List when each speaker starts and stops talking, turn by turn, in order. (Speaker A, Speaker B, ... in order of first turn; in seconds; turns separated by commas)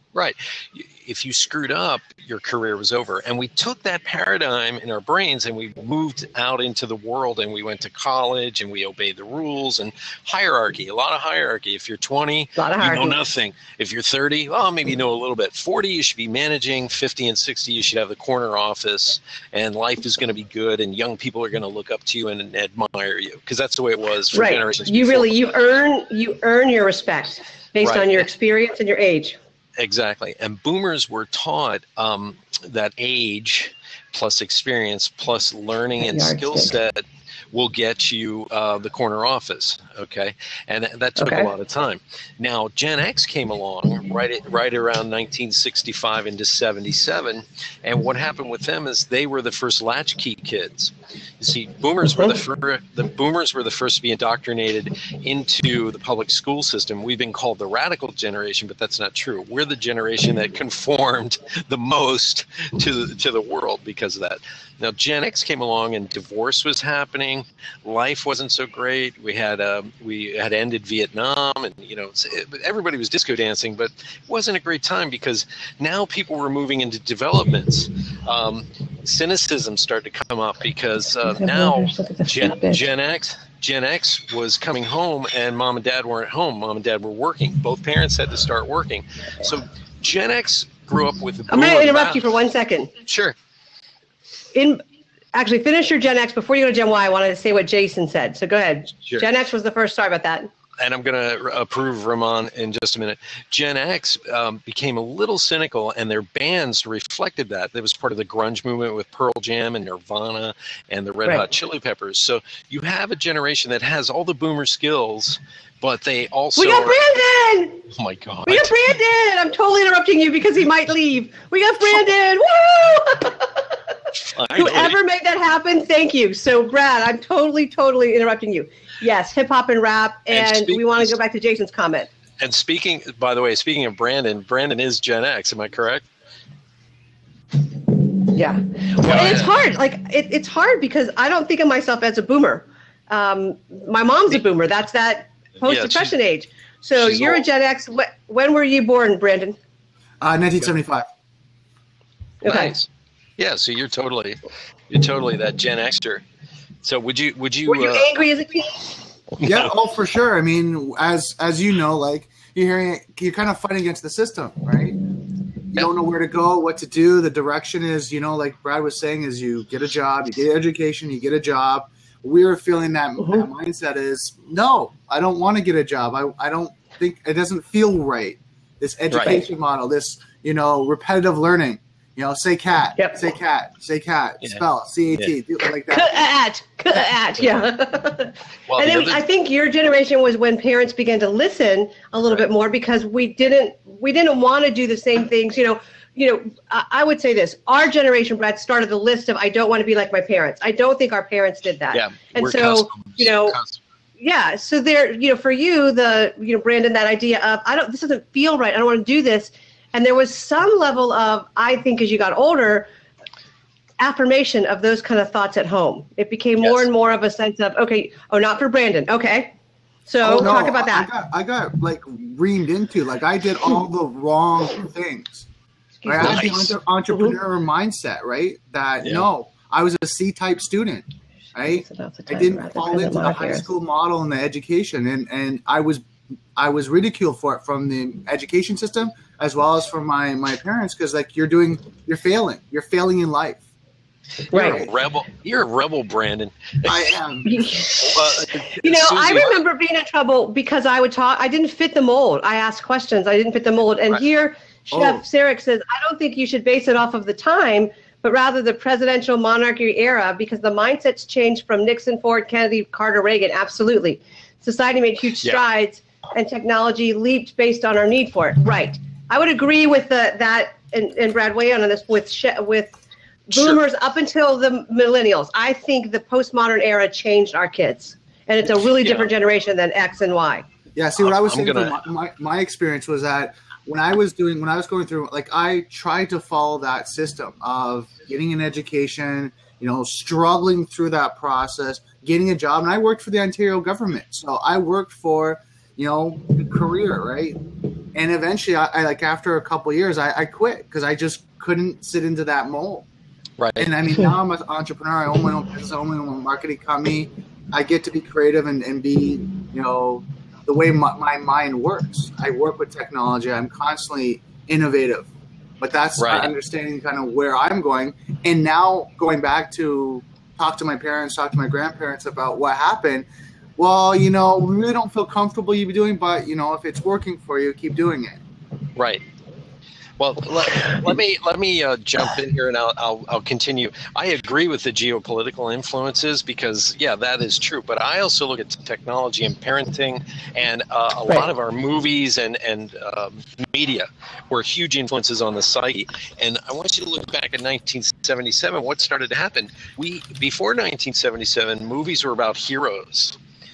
Speaker A: 0.1-25.3, Speaker B: 12.6-13.2, Speaker B: 24.3-29.4, Speaker A: 27.8-28.2, Speaker A: 29.8-92.2, Speaker B: 36.0-36.7, Speaker B: 41.2-41.5, Speaker B: 81.3-82.8, Speaker B: 91.5-92.9, Speaker A: 93.0-93.4, Speaker B: 94.5-94.8, Speaker B: 95.3-100.5, Speaker A: 100.8-117.0, Speaker B: 116.6-117.8, Speaker A: 117.9-118.8, Speaker B: 118.5-123.9, Speaker A: 124.3-125.0, Speaker B: 124.5-132.1, Speaker A: 130.3-131.2, Speaker A: 132.4-136.1, Speaker B: 138.2-149.6, Speaker A: 139.0-139.5, Speaker A: 145.6-146.1, Speaker A: 146.9-147.4, Speaker C: 150.2-151.1, Speaker B: 152.4-152.7, Speaker A: 152.4-156.2, Speaker A: 156.8-158.1, Speaker B: 157.7-158.9, Speaker A: 159.4-159.7, Speaker C: 159.4-165.0, Speaker C: 165.7-186.1, Speaker B: 173.2-173.5, Speaker A: 179.1-179.4, Speaker B: 185.9-203.6, Speaker A: 188.7-189.2, Speaker A: 201.9-203.8, Speaker B: 204.2-212.9, Speaker B: 214.0-219.5, Speaker B: 220.1-221.1, Speaker C: 220.2-225.4, Speaker B: 226.0-226.4, Speaker C: 226.1-236.1, Speaker A: 226.2-226.7, Speaker B: 227.1-227.4, Speaker A: 229.0-229.3, Speaker B: 231.7-233.7, Speaker C: 236.6-243.6, Speaker A: 244.5-247.1, Speaker B: 244.5-244.9, Speaker C: 246.9-247.6, Speaker B: 247.4-273.0, Speaker A: 247.9-249.6, Speaker C: 254.9-255.2, Speaker B: 273.5-280.6, Speaker A: 279.0-279.3, Speaker C: 280.9-297.6, Speaker A: 281.2-282.0, Speaker C: 298.1-303.1, Speaker A: 303.6-303.9, Speaker C: 303.8-315.3, Speaker C: 315.8-328.4, Speaker A: 316.2-316.5, Speaker A: 328.9-329.2, Speaker A: 330.2-353.4